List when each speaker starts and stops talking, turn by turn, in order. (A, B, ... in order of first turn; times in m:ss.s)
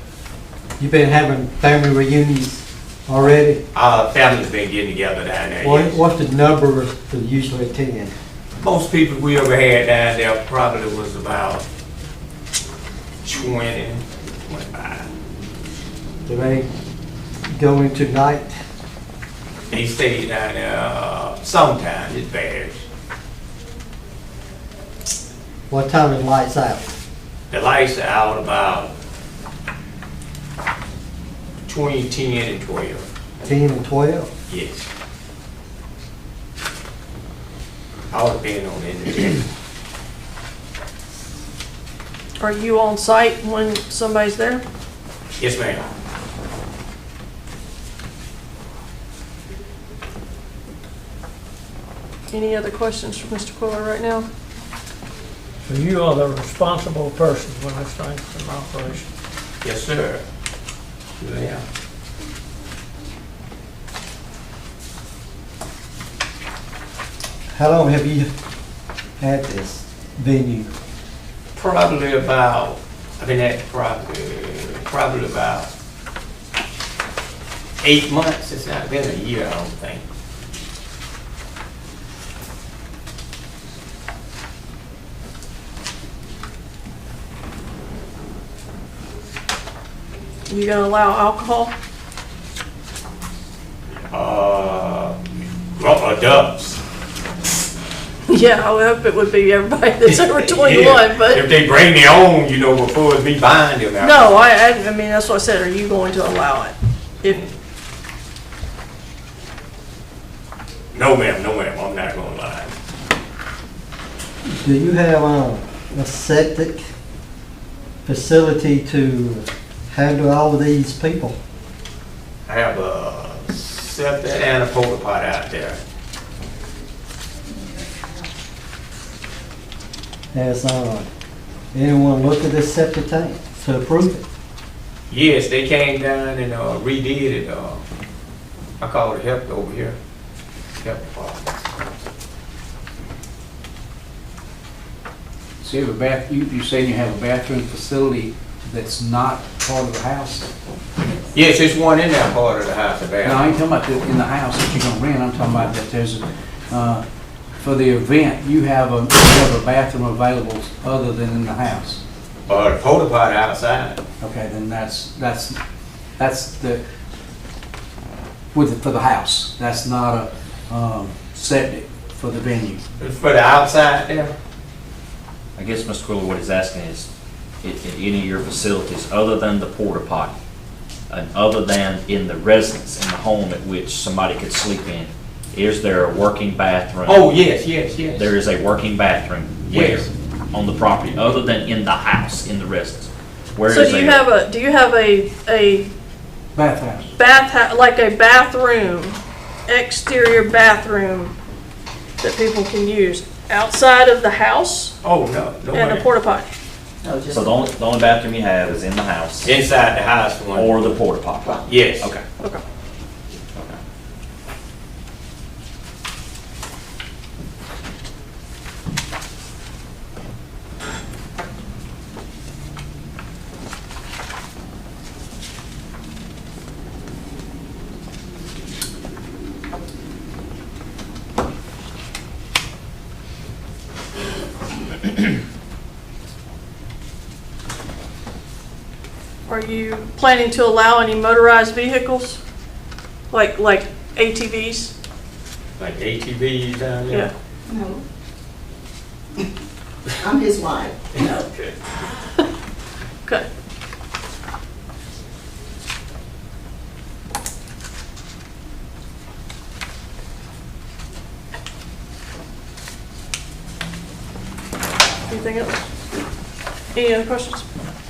0:00.8-0:03.6 A
0:03.7-0:06.0 B
0:05.6-0:08.1 A
0:08.6-0:11.6 B
0:13.2-0:15.1 B
0:16.3-0:16.7 A
0:17.5-0:18.5 A
0:19.7-0:22.8 B
0:25.7-0:26.9 A
0:27.5-0:28.9 B
0:31.7-0:33.6 B
0:33.4-0:34.3 A
0:34.5-0:34.8 B
0:38.1-0:39.4 B
0:42.4-0:44.6 C
0:45.4-0:45.9 B
0:52.3-0:54.3 C
0:55.6-0:59.0 D
0:59.6-1:00.2 B
1:01.2-1:01.6 B
1:07.5-1:08.3 A
1:09.2-1:10.7 A
1:11.6-1:15.7 B
1:17.8-1:20.0 B
1:30.5-1:31.7 C
1:34.0-1:35.2 B
1:35.8-1:36.8 B
1:38.3-1:41.4 C
1:40.0-1:44.3 B
1:44.0-1:47.4 C
1:50.9-1:52.7 B
1:54.5-1:56.8 A
1:58.0-2:01.4 A
2:02.5-2:05.8 B
2:10.3-2:11.1 A
2:11.7-2:14.2 A
2:15.1-2:17.8 B
2:18.8-2:20.0 B
2:20.8-2:21.6 B
2:25.6-2:30.5 E
2:31.3-2:33.6 B
2:33.2-2:37.1 E
2:37.6-2:42.0 E
2:42.5-2:44.0 B
2:44.2-2:45.6 E
2:46.2-2:46.8 E
2:48.5-2:52.8 E
2:53.0-2:54.3 B
2:55.6-2:57.1 F
2:57.6-3:00.4 F
3:01.1-3:07.3 F
3:07.1-3:08.3 B
3:08.2-3:14.3 F
3:09.7-3:10.1 B
3:13.7-3:15.9 C
3:16.6-3:17.1 E
3:17.2-3:21.3 C
3:22.2-3:24.9 C
3:25.0-3:26.1 B
3:25.7-3:26.5 C
3:27.0-3:27.6 G
3:27.3-3:29.5 F
3:29.4-3:31.0 B
3:30.6-3:32.2 F
3:31.7-3:32.1 B
3:59.5-4:02.4 C
4:03.3-4:04.9 C
4:05.8-4:07.3 B
4:07.7-4:08.0 G
4:10.2-4:11.5 G
4:25.3-4:25.8 C
4:26.9-4:27.6 C